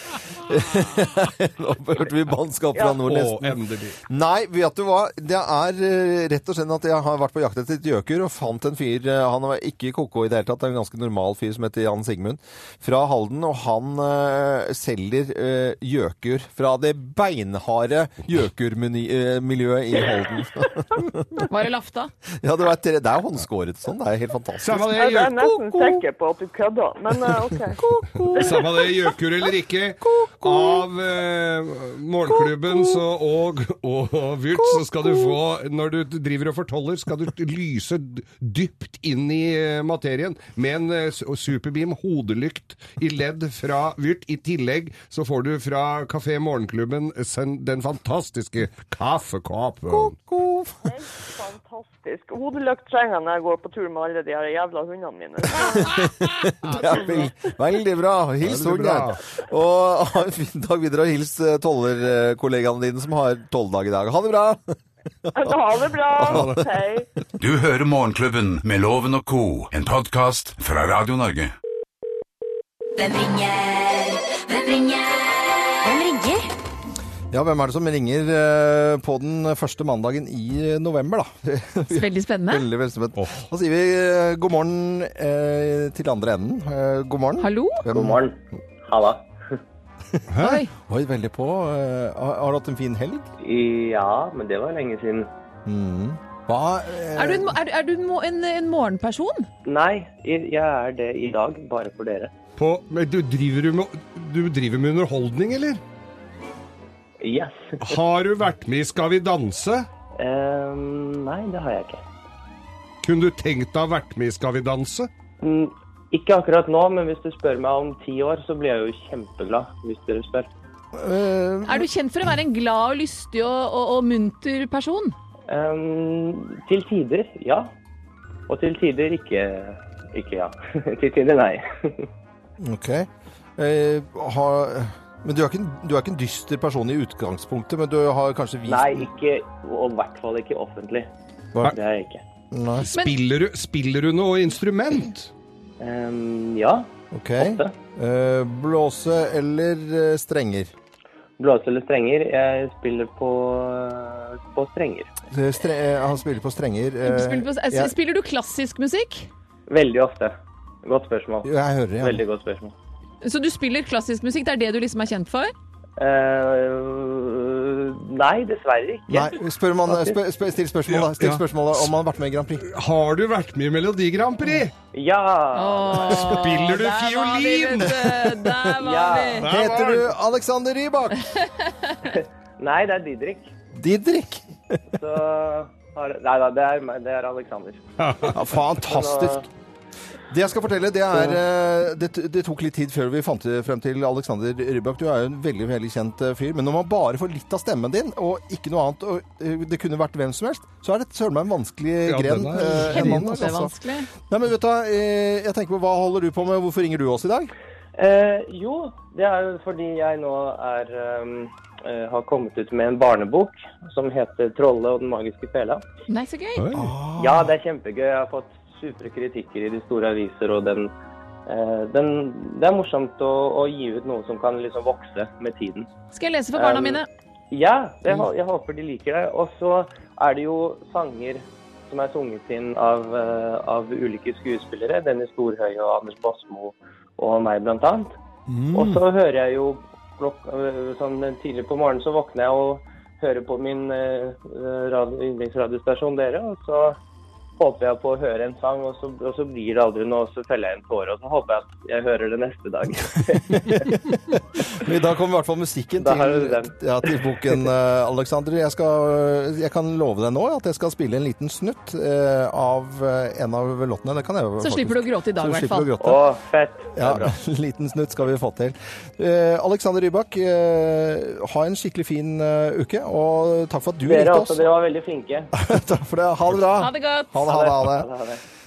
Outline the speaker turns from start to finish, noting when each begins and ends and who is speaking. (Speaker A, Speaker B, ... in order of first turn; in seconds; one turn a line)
Speaker A: 0.4-21.5
Speaker B: 3.0-4.0
Speaker C: 21.5-22.1
Speaker A: 22.4-25.0
Speaker B: 24.6-26.0
Speaker D: 24.9-27.8
Speaker A: 27.7-28.7
Speaker B: 28.2-50.2
Speaker A: 30.1-30.8
Speaker A: 32.4-32.9
Speaker A: 34.6-35.3
Speaker A: 49.9-50.8
Speaker D: 50.8-56.1
Speaker A: 55.6-65.6
Speaker B: 58.4-59.2
Speaker D: 65.3-67.1
Speaker A: 66.1-66.6
Speaker B: 66.3-66.6
Speaker E: 67.4-71.5
Speaker F: 73.0-76.5
Speaker A: 77.3-88.2
Speaker C: 81.9-82.7
Speaker B: 83.2-83.4
Speaker C: 87.4-87.8
Speaker G: 87.9-89.3
Speaker B: 90.3-90.6
Speaker C: 90.4-90.7
Speaker A: 90.8-93.3
Speaker G: 93.4-95.3
Speaker A: 95.7-97.6
Speaker C: 97.2-99.5
Speaker G: 99.7-102.3
Speaker B: 102.6-105.8
Speaker G: 107.2-107.9
Speaker B: 107.8-109.9
Speaker G: 110.2-112.0
Speaker B: 113.0-115.1
Speaker G: 115.4-120.5
Speaker A: 120.9-121.9
Speaker C: 121.7-125.2
Speaker G: 125.5-127.7
Speaker G: 128.5-132.1
Speaker A: 132.6-139.1
Speaker G: 138.7-141.1
Speaker G: 141.7-142.2
Speaker A: 142.5-142.9
Speaker B: 142.8-145.3
Speaker G: 145.8-147.8
Speaker A: 147.1-150.7
Speaker G: 151.4-155.1
Speaker A: 155.3-157.9
Speaker C: 157.0-159.3
Speaker G: 159.7-162.7
Speaker A: 161.4-162.2
Speaker C: 163.2-165.5
Speaker G: 166.0-170.2
Speaker A: 169.1-172.7
Speaker B: 170.9-171.4
Speaker B: 172.7-174.7
Speaker G: 174.9-176.3
Speaker C: 175.5-179.5
Speaker B: 176.2-178.3
Speaker G: 178.8-179.4
Speaker B: 179.4-180.1
Speaker A: 179.5-181.2
Speaker C: 181.3-181.9
Speaker G: 182.1-183.5
Speaker A: 183.7-184.8
Speaker G: 184.9-187.8
Speaker B: 188.0-188.3
Speaker A: 188.3-189.4
Speaker G: 188.8-189.4
Speaker A: 190.3-203.7
Speaker B: 202.1-203.5
Speaker C: 202.8-204.1
Speaker A: 204.3-207.5
Speaker G: 207.9-215.8
Speaker C: 216.1-216.7
Speaker B: 216.6-216.9
Speaker A: 216.7-217.5
Speaker G: 217.2-220.9
Speaker G: 221.4-225.9
Speaker C: 226.1-227.1
Speaker G: 226.6-238.2
Speaker A: 238.5-239.0
Speaker G: 238.7-247.0
Speaker G: 247.6-253.8
Speaker A: 253.5-266.2
Speaker G: 256.0-257.6
Speaker C: 264.6-265.9
Speaker G: 266.0-267.3
Speaker A: 266.9-274.7
Speaker G: 274.0-275.5
Speaker A: 275.5-278.1
Speaker C: 276.8-277.4
Speaker G: 277.4-278.4